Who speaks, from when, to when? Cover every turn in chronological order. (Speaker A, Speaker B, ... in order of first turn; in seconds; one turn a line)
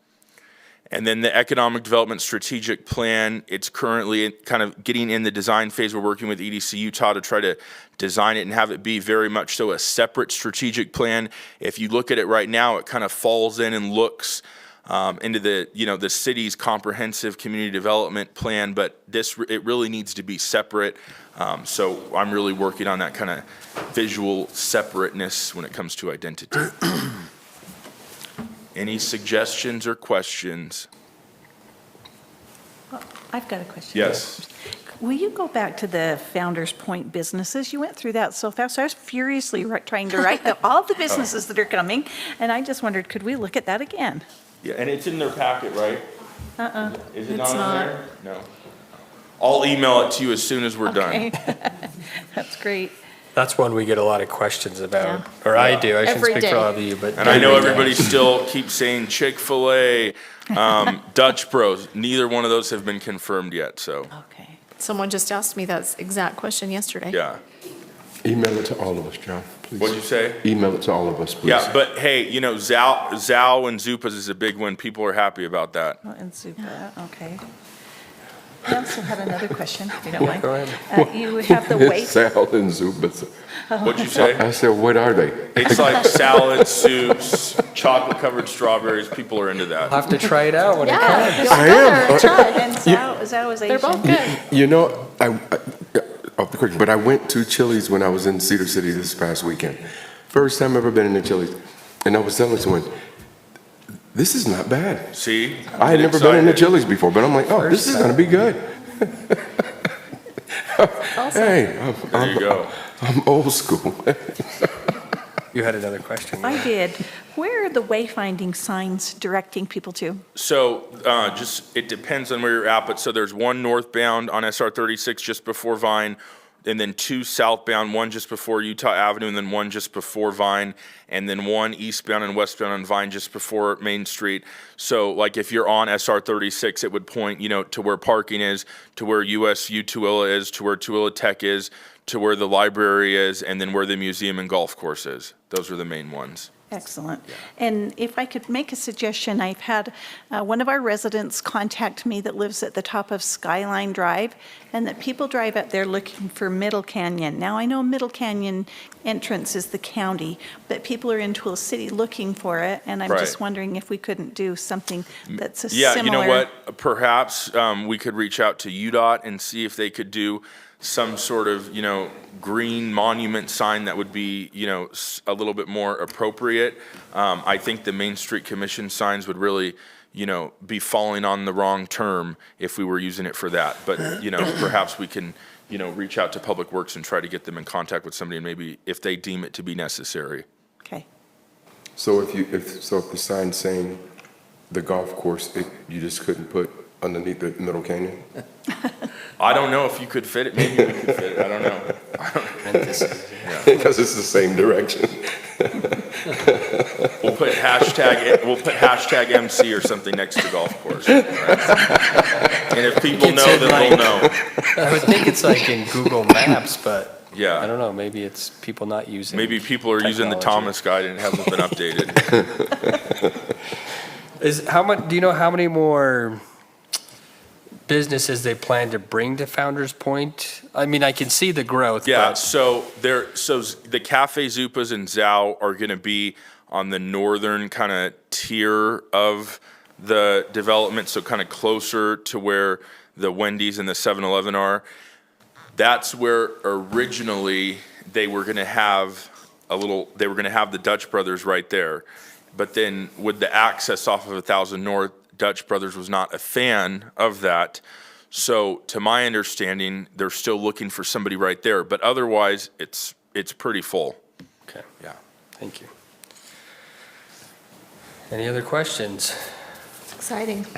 Speaker A: 0.9-27.1
Speaker A: 28.8-30.9
Speaker B: 32.9-34.5
Speaker A: 33.9-34.4
Speaker B: 35.0-44.2
Speaker A: 44.6-46.0
Speaker B: 46.6-47.0
Speaker A: 46.8-48.5
Speaker C: 47.3-48.0
Speaker A: 49.4-51.3
Speaker B: 50.8-53.0
Speaker D: 53.3-58.2
Speaker C: 55.0-55.2
Speaker A: 55.5-55.9
Speaker C: 56.0-56.7
Speaker A: 57.1-64.1
Speaker B: 64.1-64.6
Speaker C: 64.8-67.2
Speaker A: 67.1-67.4
Speaker E: 68.2-71.7
Speaker A: 69.8-70.4
Speaker A: 71.4-76.0
Speaker B: 76.0-77.4
Speaker B: 78.6-82.2
Speaker E: 80.1-80.3
Speaker D: 80.2-80.8
Speaker E: 80.9-83.3
Speaker B: 83.7-84.2
Speaker A: 83.8-84.5
Speaker E: 84.2-87.1
Speaker A: 85.5-90.0
Speaker D: 89.9-91.7
Speaker C: 90.8-92.7
Speaker E: 91.4-93.0
Speaker B: 92.2-94.2
Speaker C: 93.7-94.4
Speaker E: 94.0-102.9
Speaker E: 104.1-105.1
Speaker A: 105.1-106.8
Speaker E: 105.7-109.7
Speaker D: 107.6-108.2
Speaker E: 110.6-114.7
Speaker C: 111.2-111.6
Speaker A: 112.1-112.7
Speaker D: 115.5-116.7
Speaker B: 116.4-120.2
Speaker A: 120.3-146.5
Speaker B: 146.7-166.5
Speaker A: 163.1-163.4
Speaker A: 165.3-190.4
Speaker E: 192.0-194.0
Speaker E: 194.7-198.2
Speaker A: 199.4-202.7
Speaker E: 200.7-201.1
Speaker D: 202.6-203.6
Speaker A: 203.4-203.7
Speaker E: 203.6-207.1
Speaker A: 207.2-214.4
Speaker D: 213.1-220.8
Speaker A: 217.3-217.7
Speaker A: 219.3-222.3
Speaker D: 224.4-226.4
Speaker D: 227.9-232.4
Speaker A: 232.0-244.8
Speaker A: 245.7-264.2
Speaker D: 265.6-265.9
Speaker D: 268.3-269.4
Speaker C: 270.2-270.7